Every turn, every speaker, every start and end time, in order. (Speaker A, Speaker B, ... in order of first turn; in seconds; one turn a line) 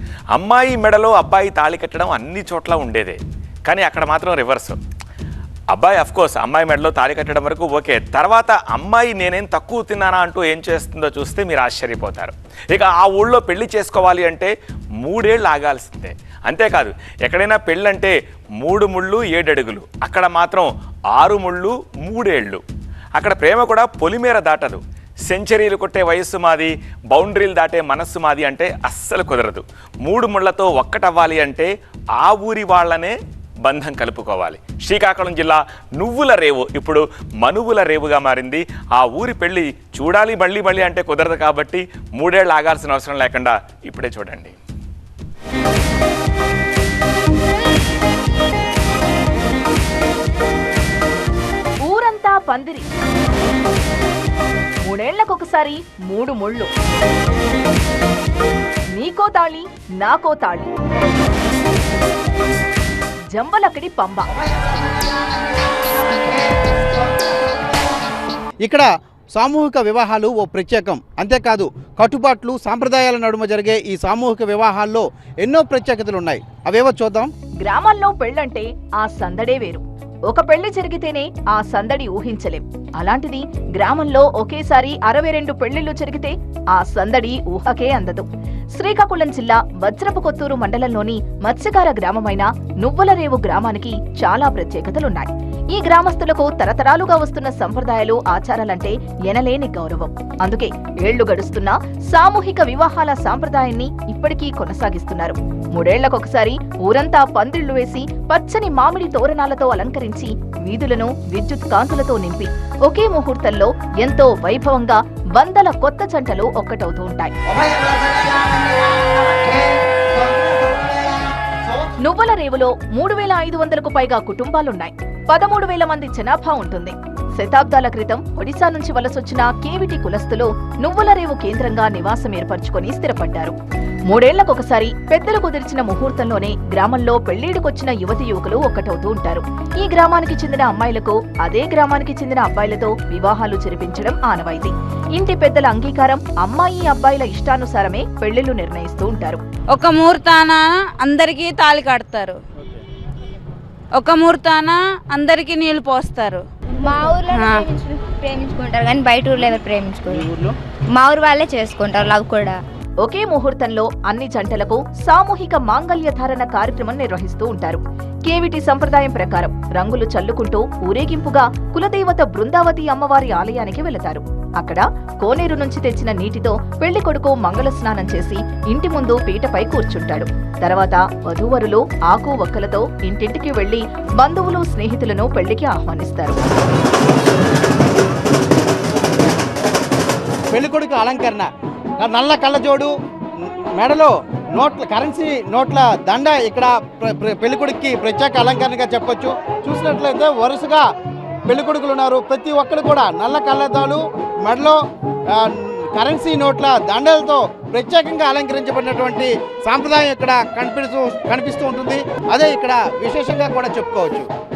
Speaker A: 0.3-4.8
Speaker A: 5.7-22.6
Speaker A: 23.2-44.6
Speaker B: 51.8-52.9
Speaker B: 54.8-56.7
Speaker B: 58.9-60.7
Speaker B: 63.3-64.3
Speaker C: 64.5-64.9
Speaker C: 66.1-67.3
Speaker C: 68.6-77.3
Speaker B: 77.6-117.3
Speaker C: 117.5-121.7
Speaker B: 122.0-133.6
Speaker B: 134.1-149.4
Speaker D: 149.7-152.4
Speaker D: 154.0-156.4
Speaker E: 156.8-160.4
Speaker D: 157.3-157.6
Speaker E: 160.9-162.6
Speaker B: 163.0-186.4
Speaker C: 190.5-191.5
Speaker C: 192.0-192.9
Speaker C: 193.4-200.8
Speaker C: 201.5-204.8
Speaker C: 205.3-214.3